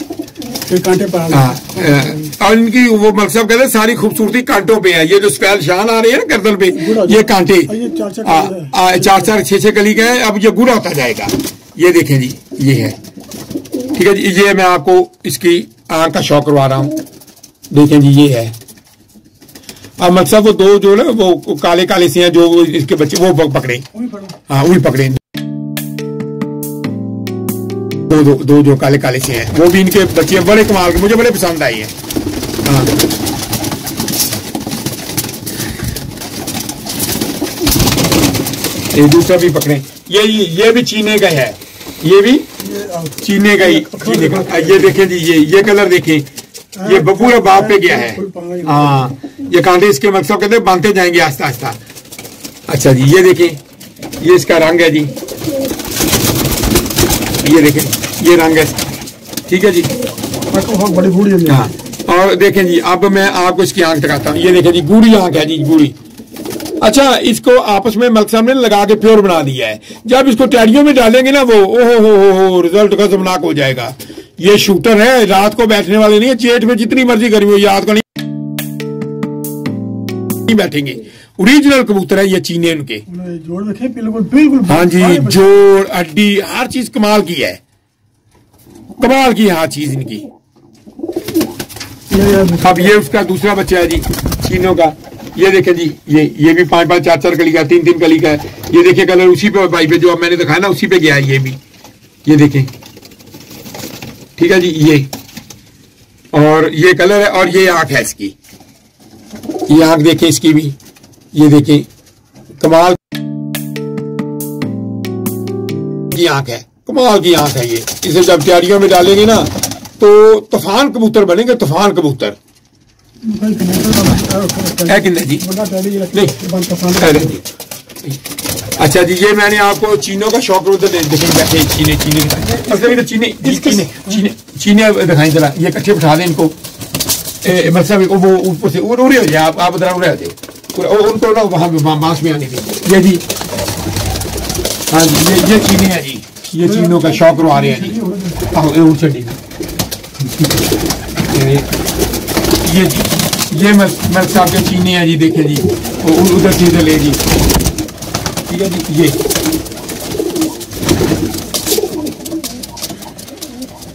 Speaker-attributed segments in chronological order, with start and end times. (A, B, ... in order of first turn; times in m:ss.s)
0:00.7-0:02.3 A
0:01.3-0:13.0 B
0:06.7-0:09.3 A
0:13.9-0:16.9 B
0:17.7-0:18.5 B
0:20.0-0:23.9 B
0:24.5-0:25.2 B
0:28.1-0:31.9 B
0:32.6-0:33.0 B
0:38.9-0:42.5 B
0:42.6-0:45.0 A
0:43.2-0:46.3 B
0:46.8-0:49.1 A
0:46.8-0:51.8 B
0:52.7-0:53.6 B
0:54.2-0:55.1 B
0:57.4-0:59.9 B
1:00.5-1:01.7 A
1:01.5-1:06.0 B
1:06.8-1:18.0 B
1:20.5-1:23.0 B
1:23.1-1:25.5 A
1:24.7-1:27.6 B
1:29.0-1:30.3 B
1:32.1-1:32.9 A
1:32.6-1:41.6 B
1:42.3-1:42.7 B
1:44.4-1:45.1 B
1:46.3-1:48.4 B
1:49.7-1:50.8 B
1:51.3-1:51.9 B
1:52.6-1:53.0 B
1:56.1-2:02.4 B
2:03.2-2:07.3 A
2:04.9-2:05.5 B
2:06.1-2:06.4 B
2:07.0-2:07.4 B
2:08.8-2:16.5 B
2:12.6-2:14.1 A
2:17.4-2:23.2 B
2:24.9-2:29.4 B
2:26.6-2:28.4 A
2:31.3-2:31.7 B
2:32.6-2:37.2 B
2:38.5-2:39.2 B